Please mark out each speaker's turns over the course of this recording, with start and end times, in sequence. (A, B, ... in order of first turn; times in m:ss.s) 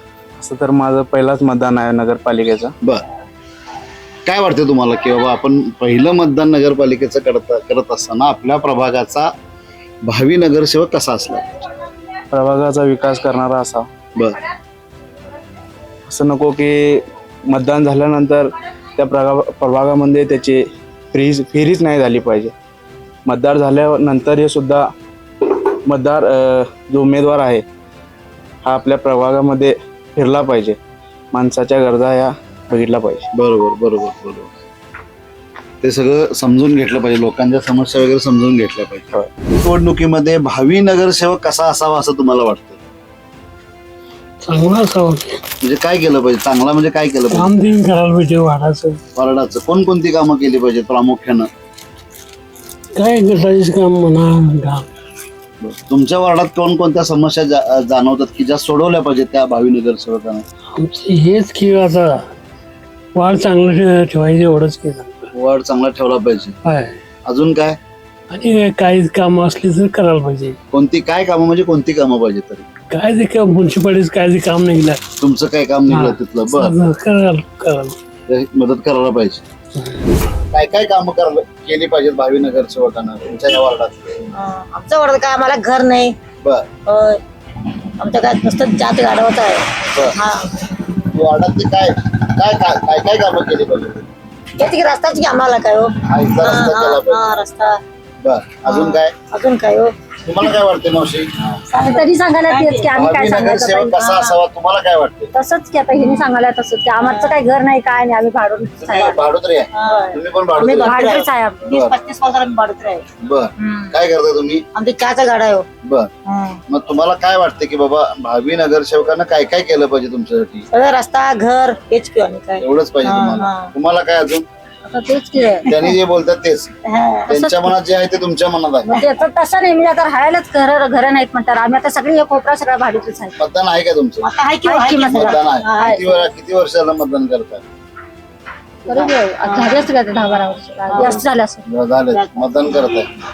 0:00.4-0:02.7 A
0:04.2-0:09.3 B
0:10.1-0:11.4 B
0:12.3-0:13.9 A
0:16.1-0:20.6 A
0:21.1-0:22.5 A
0:23.3-0:24.9 A
0:25.9-0:27.6 A
0:28.6-0:30.8 A
0:31.3-0:33.3 A
0:33.3-0:34.5 B
0:35.8-0:42.8 B
0:44.4-0:45.4 C
0:45.6-0:47.5 B
0:47.3-0:49.0 C
0:49.2-0:51.5 B
0:53.0-0:54.8 C
0:55.6-1:00.4 B
1:00.8-1:02.2 C
1:03.2-1:05.3 C
1:05.3-1:06.6 B
1:06.6-1:06.9 C
1:07.3-1:07.8 B
1:08.3-1:10.6 C
1:10.7-1:12.7 B
1:12.9-1:15.0 C
1:15.2-1:16.8 B
1:15.9-1:17.9 C
1:18.3-1:19.4 B
1:20.5-1:24.3 B
1:24.4-1:26.2 D
1:26.9-1:27.2 D
1:28.0-1:29.7 D
1:31.1-1:34.0 B
1:34.6-1:37.8 D
1:36.0-1:37.4 B
1:38.2-1:39.1 B
1:38.7-1:39.9 D
1:40.3-1:41.3 B
1:41.7-1:43.1 D
1:41.9-1:43.9 E
1:42.8-1:45.3 B
1:43.9-1:44.3 D
1:45.4-1:49.2 E
1:45.9-1:46.3 D
1:47.0-1:47.7 D
1:48.8-1:52.0 B
1:49.8-1:53.0 D
1:50.9-1:51.5 E
1:53.2-1:54.6 B
1:53.6-1:53.9 D
1:54.8-1:55.7 D
1:55.8-1:56.1 B
1:56.3-1:56.6 D
1:56.7-2:00.7 B
2:00.7-2:03.7 D
2:02.6-2:04.5 B
2:04.9-2:05.9 D
2:05.7-2:06.7 B
2:06.9-2:07.7 D
2:07.3-2:09.0 B
2:08.9-2:09.2 D
2:09.1-2:13.3 E
2:13.4-2:14.3 B
2:14.2-2:16.1 D
2:14.7-2:15.0 E
2:15.0-2:17.6 B
2:15.9-2:16.1 E
2:18.9-2:21.6 E
2:18.9-2:19.9 D
2:20.8-2:21.3 D
2:21.7-2:23.1 B